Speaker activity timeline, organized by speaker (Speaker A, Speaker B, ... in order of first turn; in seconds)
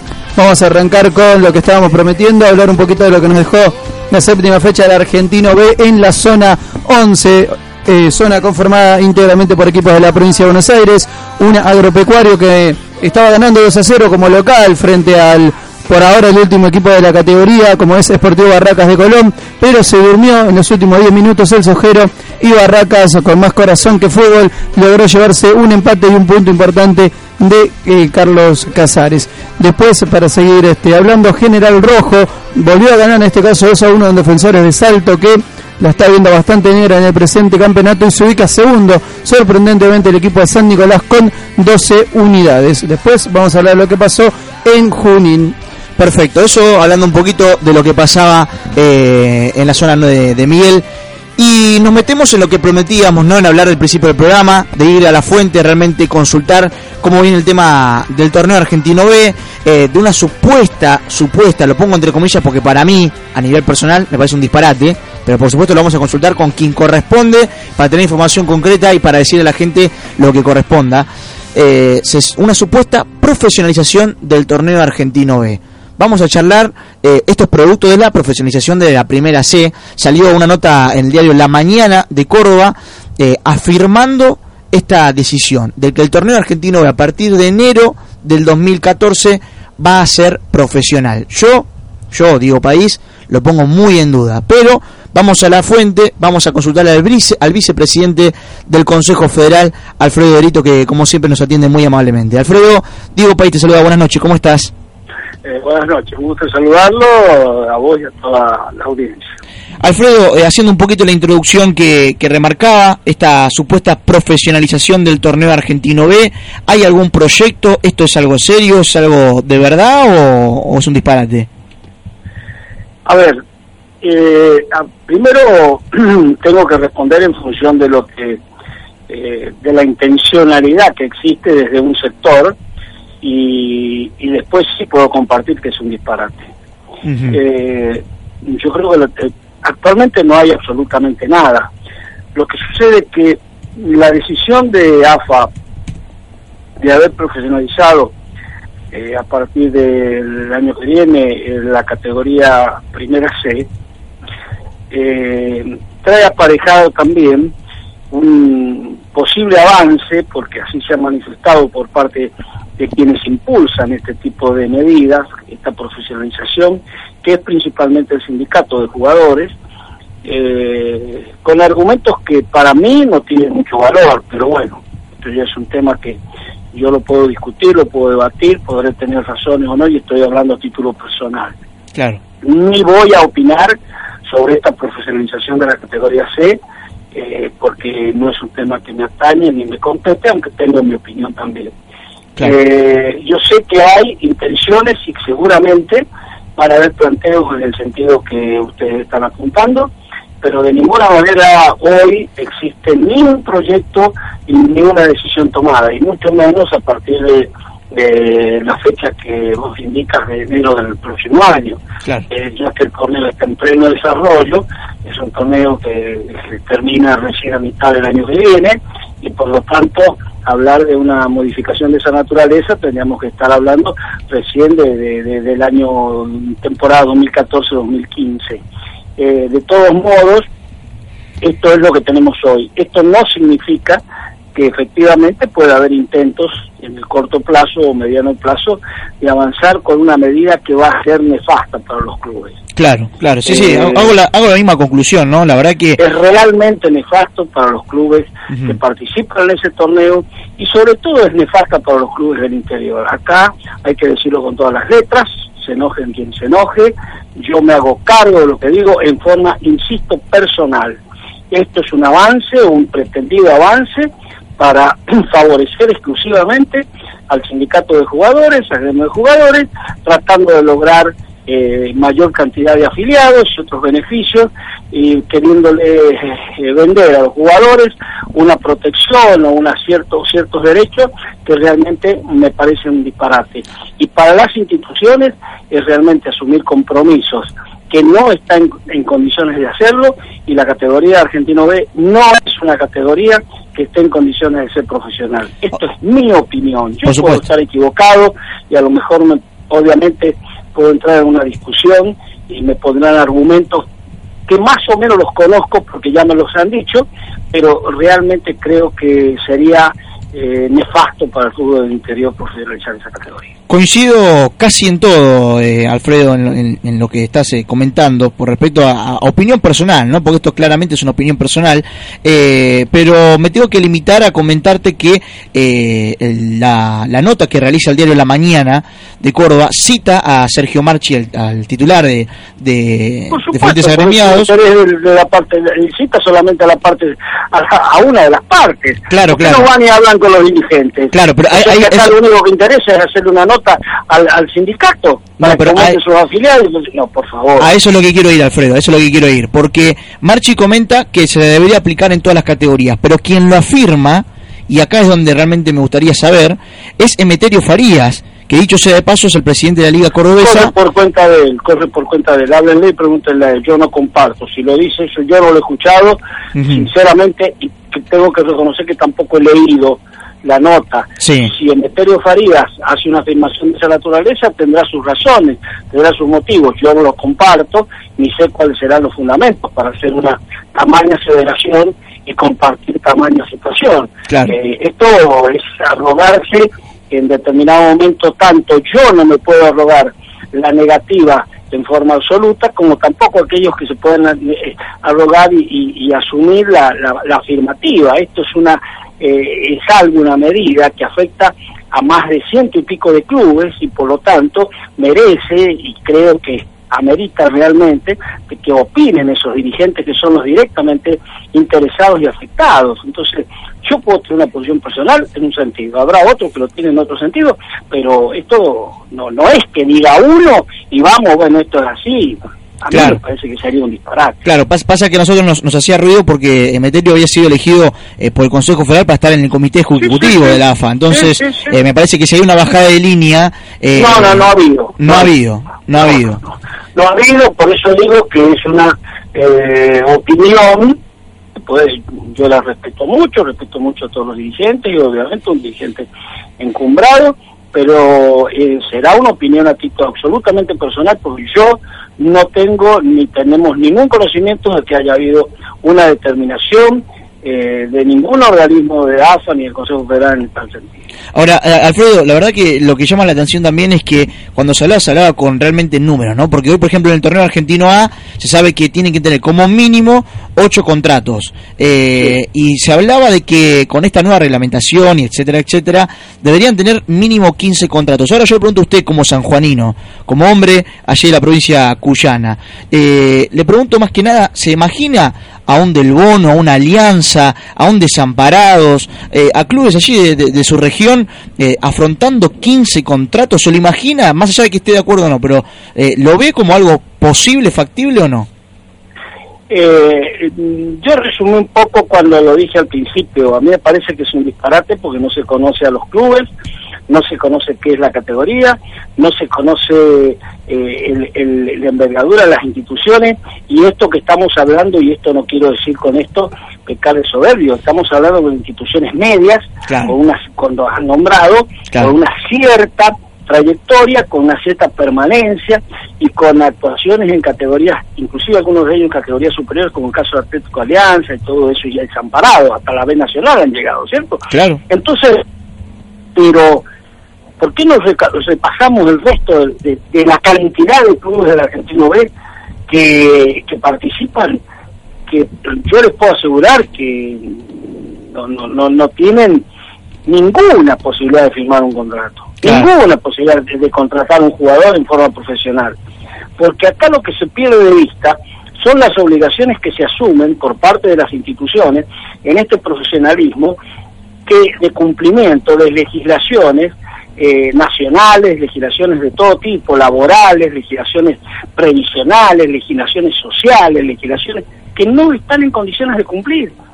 Speaker A: 0.3-45.5
Speaker B: 46.0-50.8, 51.4-104.7, 109.8-121.5, 137.0-137.4, 181.9-182.2, 242.8-246.0, 248.5-248.8, 297.0-297.4, 313.7-334.5, 339.1-339.7, 341.1-342.1, 345.4-346.0, 347.6-360.7, 366.5-366.9, 371.2-371.5, 384.3-384.6, 422.9-423.2, 424.4-436.4, 461.3-498.5, 519.9-520.1, 534.5-534.8, 552.6-552.9
Speaker C: 105.4-109.2, 123.0-123.4, 124.0-128.4, 129.1-132.5, 133.2-136.5, 137.3-141.7, 142.3-145.5, 146.8-148.1, 148.9-153.7, 154.9-157.5, 158.1-169.5, 170.2-176.2, 176.7-181.5, 182.4-183.7, 184.2-186.6, 187.1-191.7, 192.4-196.0, 196.6-199.9, 200.4-228.6, 229.2-230.4, 231.4-234.0, 234.5-242.6, 243.4-244.1, 246.0-261.0, 261.5-303.8, 304.5-313.5, 333.3-347.7, 360.4-424.4, 430.0-430.6, 431.1-431.7, 433.9-435.3, 436.9-441.0, 441.6-446.1, 446.6-461.0, 499.7-506.5, 507.1-535.4, 536.4-536.8, 537.6-542.3, 542.9-544.6, 545.3-547.6, 548.3-549.6, 550.3-556.0, 556.6-563.8, 564.5-576.7